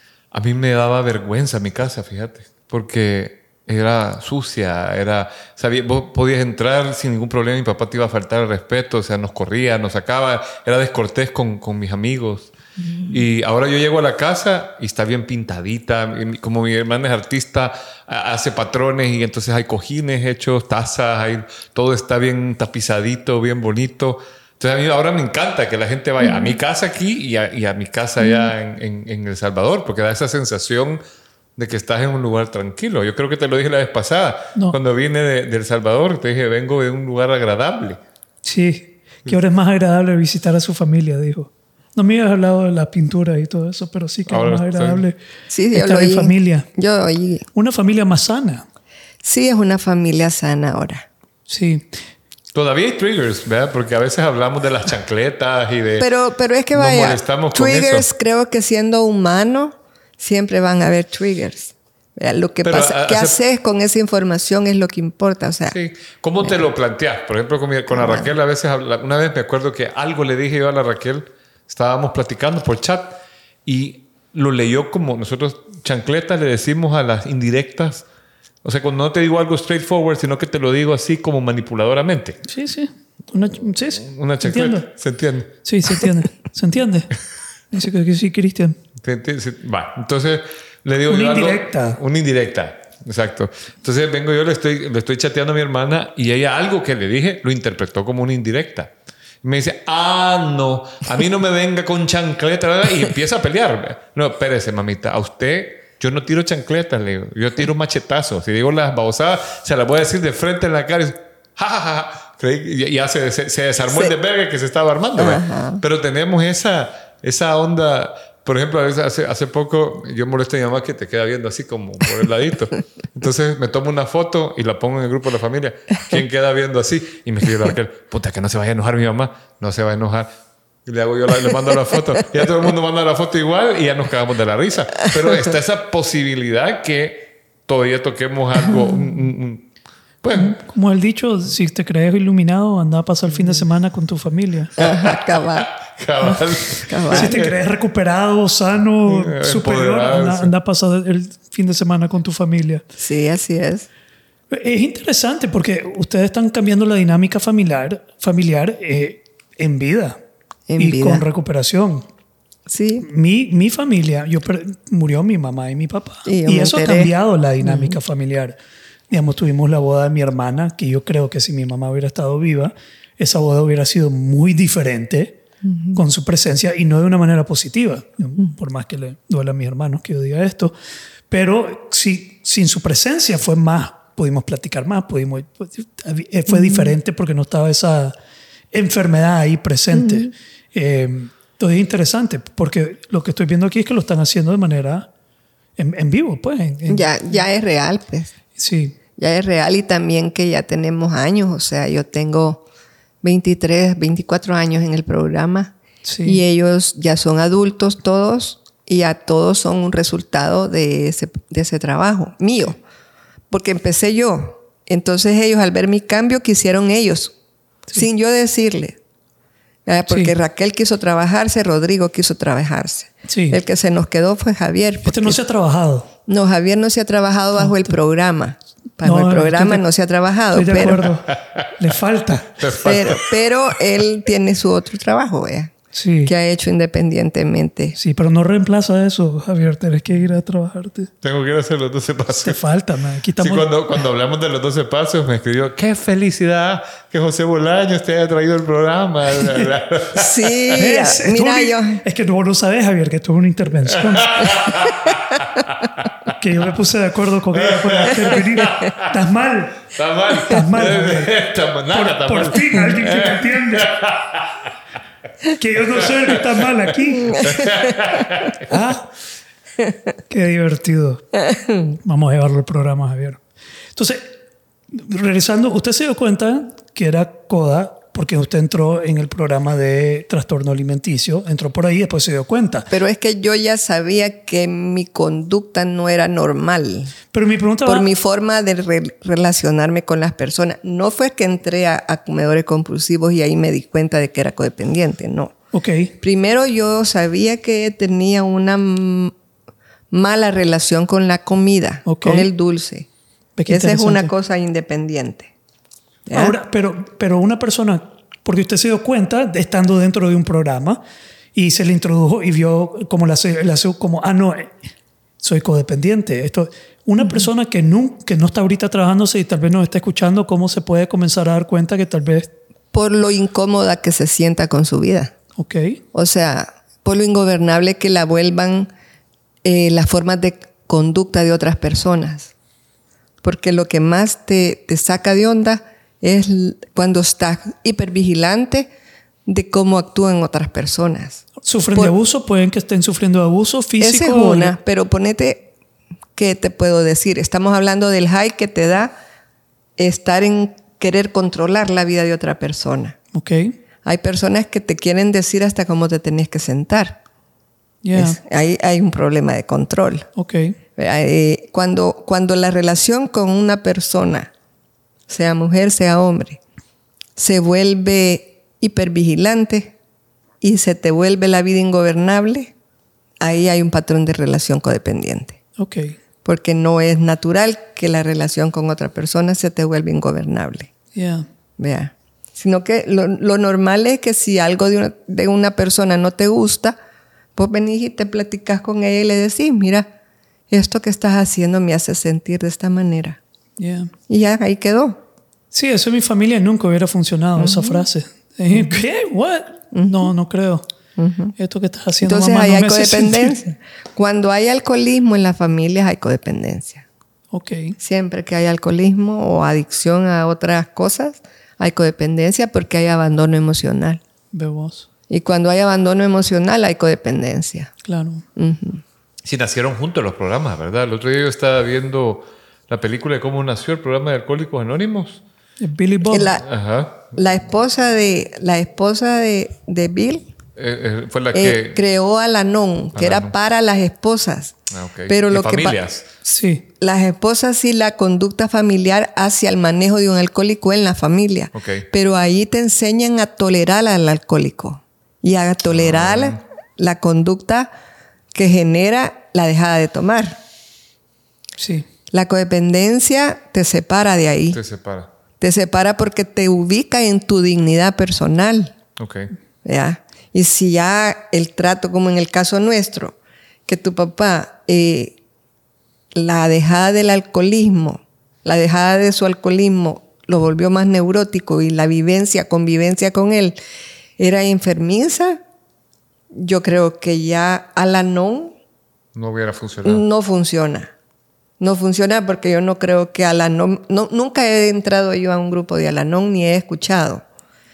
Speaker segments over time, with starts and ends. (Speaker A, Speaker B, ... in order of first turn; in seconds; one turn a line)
Speaker A: 0.3-12.5
Speaker A: 13.1-31.0
Speaker A: 31.6-38.0
Speaker B: 38.4-45.2
Speaker A: 44.3-45.0
Speaker C: 45.5-47.5
Speaker B: 45.7-46.7
Speaker B: 47.5-48.6
Speaker C: 49.2-51.0
Speaker B: 51.5-51.9
Speaker A: 52.5-56.1
Speaker C: 56.0-65.8
Speaker A: 56.7-58.0
Speaker A: 62.6-63.4
Speaker A: 65.7-78.0
Speaker C: 67.9-68.3
Speaker A: 78.6-82.4
Speaker B: 82.5-84.8
Speaker A: 84.0-85.5
Speaker B: 85.6-87.1
Speaker B: 87.7-88.8
Speaker A: 89.0-98.9
Speaker B: 91.1-92.0
Speaker A: 99.4-130.3
Speaker C: 115.2-115.8
Speaker A: 130.8-139.6
Speaker A: 140.2-140.6
Speaker B: 140.3-144.7
Speaker C: 144.8-145.7
Speaker A: 144.8-147.5
Speaker C: 146.9-147.3
Speaker B: 147.1-152.8
Speaker A: 149.1-150.5
Speaker C: 153.0-153.9
Speaker B: 154.5-160.2
Speaker C: 160.7-161.2
Speaker B: 160.8-162.1
Speaker C: 162.7-163.1
Speaker B: 163.0-168.6
Speaker C: 166.2-168.0
Speaker B: 169.1-175.4
Speaker C: 175.6-176.0
Speaker B: 175.9-180.7
Speaker B: 181.3-188.1
Speaker C: 186.5-186.9
Speaker B: 188.7-195.1
Speaker C: 189.9-190.3
Speaker B: 195.8-197.4
Speaker C: 196.9-198.3
Speaker B: 198.6-199.0
Speaker C: 199.2-202.6
Speaker C: 203.2-212.8
Speaker B: 206.0-206.4
Speaker C: 213.5-217.3
Speaker C: 217.9-219.0
Speaker C: 219.8-225.4
Speaker B: 223.3-223.6
Speaker B: 225.1-226.1
Speaker C: 226.3-231.1
Speaker B: 229.0-229.8
Speaker B: 230.5-232.6
Speaker A: 232.6-233.2
Speaker C: 232.8-235.7
Speaker B: 235.9-236.3
Speaker C: 236.2-237.9
Speaker B: 237.9-241.1
Speaker A: 241.2-242.6
Speaker B: 242.3-243.7
Speaker A: 243.4-250.6
Speaker B: 249.4-249.7
Speaker C: 250.1-252.0
Speaker B: 250.8-254.7
Speaker A: 254.0-256.3
Speaker B: 256.3-259.9
Speaker A: 257.6-259.1
Speaker A: 259.9-264.7
Speaker B: 260.4-261.3
Speaker B: 261.9-263.9
Speaker B: 265.6-267.6
Speaker C: 267.3-267.7
Speaker A: 267.4-268.6
Speaker B: 268.6-269.1
Speaker B: 270.3-271.3
Speaker B: 272.0-273.4
Speaker B: 273.9-274.3
Speaker B: 274.9-282.9
Speaker C: 282.9-287.1
Speaker B: 287.3-288.1
Speaker C: 287.8-295.5
Speaker B: 295.7-296.1
Speaker C: 296.2-299.3
Speaker C: 300.1-303.1
Speaker B: 302.1-302.5
Speaker B: 303.6-304.3
Speaker C: 303.7-305.5
Speaker C: 306.3-306.6
Speaker B: 306.3-311.0
Speaker B: 311.5-314.8
Speaker B: 315.4-322.5
Speaker C: 322.9-325.3
Speaker B: 325.6-326.0
Speaker C: 326.1-328.9
Speaker C: 329.6-332.5
Speaker C: 333.4-338.9
Speaker C: 339.4-342.1
Speaker B: 341.6-344.8
Speaker C: 344.0-345.7
Speaker C: 346.4-349.1
Speaker C: 350.0-353.2
Speaker B: 353.3-353.8
Speaker C: 354.0-357.2
Speaker B: 358.0-358.4
Speaker C: 358.1-360.3
Speaker B: 360.4-360.8
Speaker C: 361.0-364.5
Speaker C: 365.3-366.6
Speaker C: 367.4-369.9
Speaker C: 370.6-372.7
Speaker C: 373.4-375.6
Speaker B: 375.8-376.1
Speaker C: 376.4-380.9
Speaker B: 381.1-381.4
Speaker C: 381.8-386.9
Speaker C: 387.6-390.1
Speaker C: 390.7-393.4
Speaker B: 393.8-394.1
Speaker C: 394.3-395.2
Speaker B: 395.7-400.8
Speaker C: 397.6-398.0
Speaker C: 399.9-400.3
Speaker C: 401.2-401.5
Speaker B: 401.6-403.6
Speaker C: 402.2-407.1
Speaker B: 407.5-408.0
Speaker C: 408.0-414.2
Speaker B: 414.5-415.1
Speaker C: 415.3-417.9
Speaker B: 418.0-418.4
Speaker C: 418.6-419.0
Speaker A: 419.4-425.4
Speaker B: 425.8-426.5
Speaker C: 426.3-426.6
Speaker A: 426.6-427.3
Speaker C: 427.3-430.5
Speaker A: 430.8-432.0
Speaker C: 431.5-434.8
Speaker A: 433.1-433.5
Speaker A: 434.9-436.3
Speaker C: 435.3-436.0
Speaker B: 436.4-436.8
Speaker C: 437.0-447.9
Speaker A: 441.7-442.1
Speaker A: 445.9-446.6
Speaker C: 448.5-450.6
Speaker B: 451.8-452.0
Speaker C: 452.3-454.8
Speaker A: 454.7-455.3
Speaker C: 455.6-458.9
Speaker A: 459.2-459.5
Speaker C: 459.8-463.4
Speaker C: 463.9-465.4
Speaker C: 466.3-473.8
Speaker C: 474.4-475.6
Speaker C: 476.5-478.7
Speaker A: 479.3-480.2
Speaker C: 480.0-481.1
Speaker C: 481.8-487.4